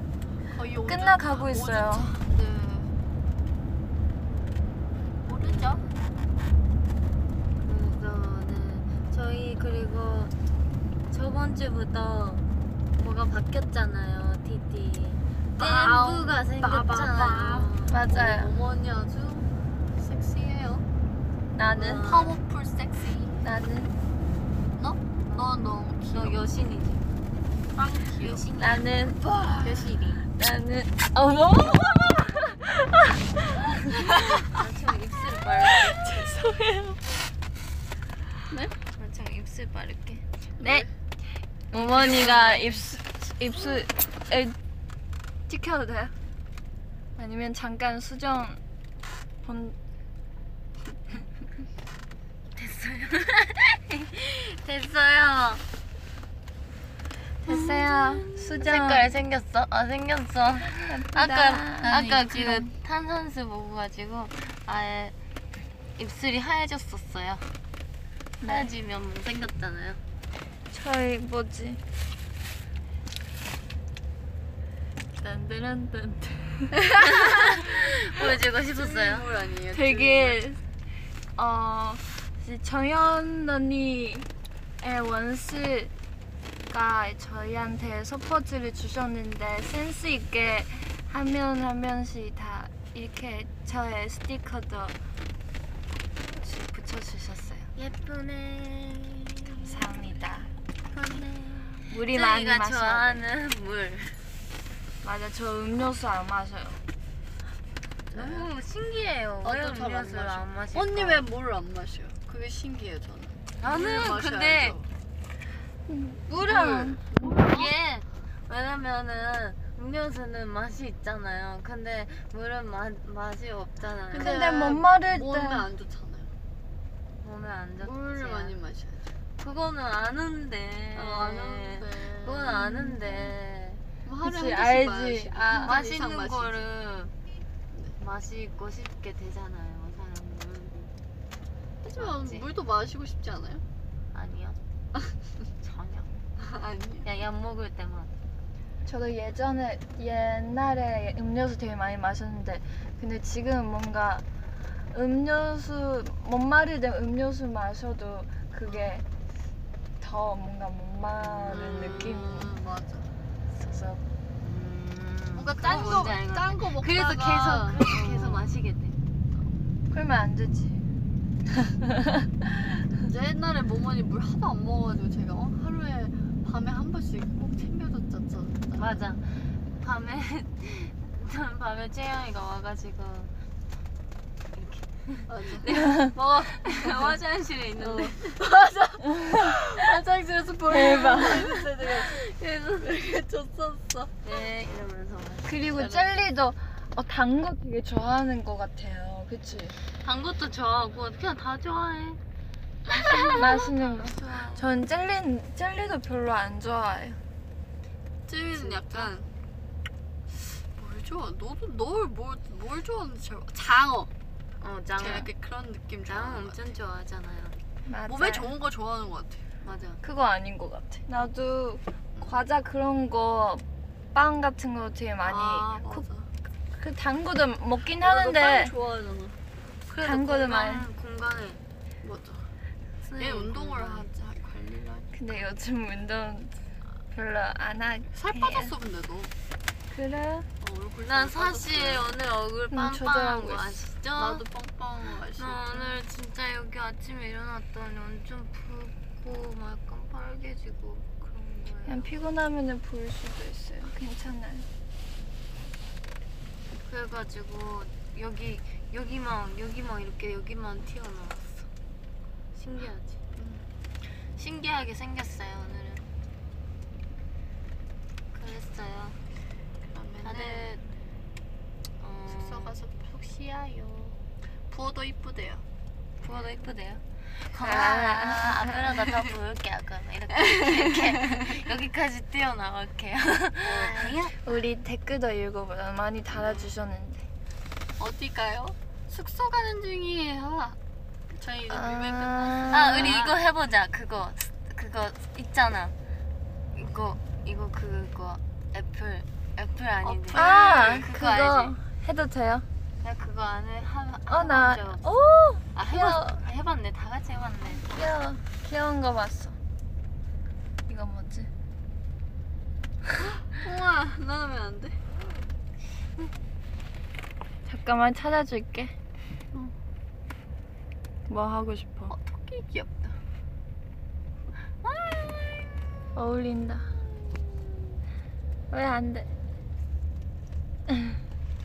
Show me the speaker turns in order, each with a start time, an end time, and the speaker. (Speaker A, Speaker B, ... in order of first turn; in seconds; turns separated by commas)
Speaker A: 0.5-2.9, Speaker B: 0.9-2.1, Speaker A: 5.2-5.8, Speaker C: 5.4-6.0, Speaker C: 7.6-10.3, Speaker C: 11.1-12.4, Speaker C: 12.9-18.0, Speaker A: 15.6-20.8, Speaker B: 17.9-18.5, Speaker B: 21.6-22.0, Speaker C: 21.7-22.4, Speaker A: 22.0-23.4, Speaker B: 23.4-23.9, Speaker A: 24.8-26.4, Speaker C: 26.1-27.0, Speaker A: 27.7-28.4, Speaker C: 28.2-28.9, Speaker B: 28.6-34.4, Speaker A: 29.6-30.2, Speaker A: 34.0-34.4, Speaker C: 34.4-36.0, Speaker B: 35.7-37.0, Speaker A: 38.5-38.8, Speaker C: 39.0-40.2, Speaker A: 40.6-40.9, Speaker B: 40.6-40.9, Speaker B: 41.7-44.5, Speaker C: 41.8-42.8, Speaker A: 42.0-42.4, Speaker B: 45.5-46.1, Speaker B: 47.2-48.6, Speaker B: 49.4-49.8, Speaker C: 52.5-55.6, Speaker B: 57.4-59.1, Speaker A: 57.4-58.6, Speaker C: 58.6-65.1, Speaker B: 60.7-62.6, Speaker A: 61.8-62.7, Speaker C: 66.0-67.5, Speaker B: 68.4-68.7, Speaker C: 68.4-70.0, Speaker B: 70.7-71.8, Speaker B: 75.2-76.8, Speaker A: 76.7-77.7, Speaker C: 77.0-79.3, Speaker A: 78.7-80.4, Speaker B: 79.7-80.6, Speaker B: 81.3-84.3, Speaker B: 84.8-85.9, Speaker B: 86.7-94.9, Speaker B: 96.3-97.7, Speaker C: 97.8-99.9, Speaker B: 99.6-100.5, Speaker A: 100.9-101.7, Speaker C: 101.1-104.2, Speaker B: 101.9-103.2, Speaker B: 105.0-106.8, Speaker C: 108.1-111.2, Speaker A: 108.1-108.5, Speaker A: 109.4-114.9, Speaker C: 113.6-114.8, Speaker B: 115.9-117.0, Speaker A: 116.3-117.7, Speaker C: 117.4-124.4, Speaker A: 124.1-126.3, Speaker B: 124.2-125.7, Speaker C: 127.2-128.5, Speaker A: 127.8-129.1, Speaker C: 129.4-133.8, Speaker A: 130.9-132.7, Speaker B: 132.6-133.2, Speaker A: 134.0-136.6, Speaker B: 134.2-135.7, Speaker C: 135.3-137.1, Speaker C: 138.0-140.8, Speaker A: 141.8-143.6, Speaker C: 141.9-142.5, Speaker C: 144.1-144.6, Speaker C: 145.6-146.1, Speaker A: 146.4-147.1, Speaker C: 147.0-148.1, Speaker B: 148.8-154.2, Speaker B: 154.9-159.0, Speaker B: 160.0-162.5, Speaker C: 161.2-162.2, Speaker A: 161.5-163.1, Speaker B: 163.6-164.0, Speaker C: 164.4-169.0, Speaker A: 165.3-168.4, Speaker B: 169.9-170.9, Speaker B: 171.8-172.9, Speaker A: 172.9-179.0, Speaker C: 178.8-183.3, Speaker C: 184.5-188.3, Speaker A: 185.3-187.2, Speaker A: 187.8-192.2, Speaker B: 189.1-189.6, Speaker B: 190.7-191.6, Speaker C: 191.8-192.9, Speaker A: 192.8-194.2, Speaker C: 194.2-196.1, Speaker B: 195.4-199.8, Speaker C: 200.0-202.2, Speaker A: 202.9-203.7, Speaker C: 202.9-204.7, Speaker B: 203.3-207.2, Speaker A: 208.3-209.3, Speaker C: 208.5-209.1, Speaker A: 210.3-214.1, Speaker C: 214.6-215.3, Speaker A: 215.0-216.6, Speaker C: 216.1-217.6, Speaker B: 217.8-218.5, Speaker A: 218.1-219.4, Speaker C: 219.6-220.0, Speaker B: 220.0-223.6, Speaker B: 224.1-225.8, Speaker A: 225.2-226.3, Speaker B: 226.8-228.7, Speaker A: 228.0-229.3, Speaker C: 229.9-231.6, Speaker B: 229.9-230.8, Speaker A: 232.0-232.4, Speaker C: 233.0-234.1, Speaker A: 233.2-235.1, Speaker B: 235.1-236.5, Speaker B: 237.1-238.7, Speaker A: 238.1-239.3, Speaker B: 239.9-240.5, Speaker A: 240.6-242.1, Speaker C: 241.1-244.4, Speaker B: 242.7-243.8, Speaker A: 244.2-245.9, Speaker C: 245.3-252.1, Speaker B: 251.9-254.7, Speaker C: 256.8-261.7, Speaker C: 262.5-263.2, Speaker A: 263.4-263.6, Speaker C: 264.4-266.0, Speaker C: 268.3-269.2, Speaker A: 269.8-270.8, Speaker C: 270.2-270.8, Speaker C: 272.0-272.8, Speaker A: 272.3-274.2, Speaker A: 274.7-275.6, Speaker C: 276.2-284.3, Speaker B: 277.6-279.0, Speaker A: 280.3-281.6, Speaker A: 283.6-284.4, Speaker B: 284.4-287.2, Speaker A: 288.0-290.8, Speaker A: 291.3-293.3, Speaker B: 291.7-293.2, Speaker C: 292.7-295.9, Speaker C: 296.7-301.7, Speaker A: 300.0-301.1, Speaker B: 300.3-302.6, Speaker C: 303.0-305.0, Speaker B: 304.3-306.4, Speaker C: 305.7-307.9, Speaker B: 307.8-309.5, Speaker B: 310.9-311.5, Speaker A: 313.4-314.9, Speaker B: 317.6-318.9, Speaker B: 321.3-322.1, Speaker A: 322.1-323.1, Speaker C: 324.8-325.8, Speaker B: 326.1-326.9, Speaker B: 328.7-329.3, Speaker B: 330.9-331.2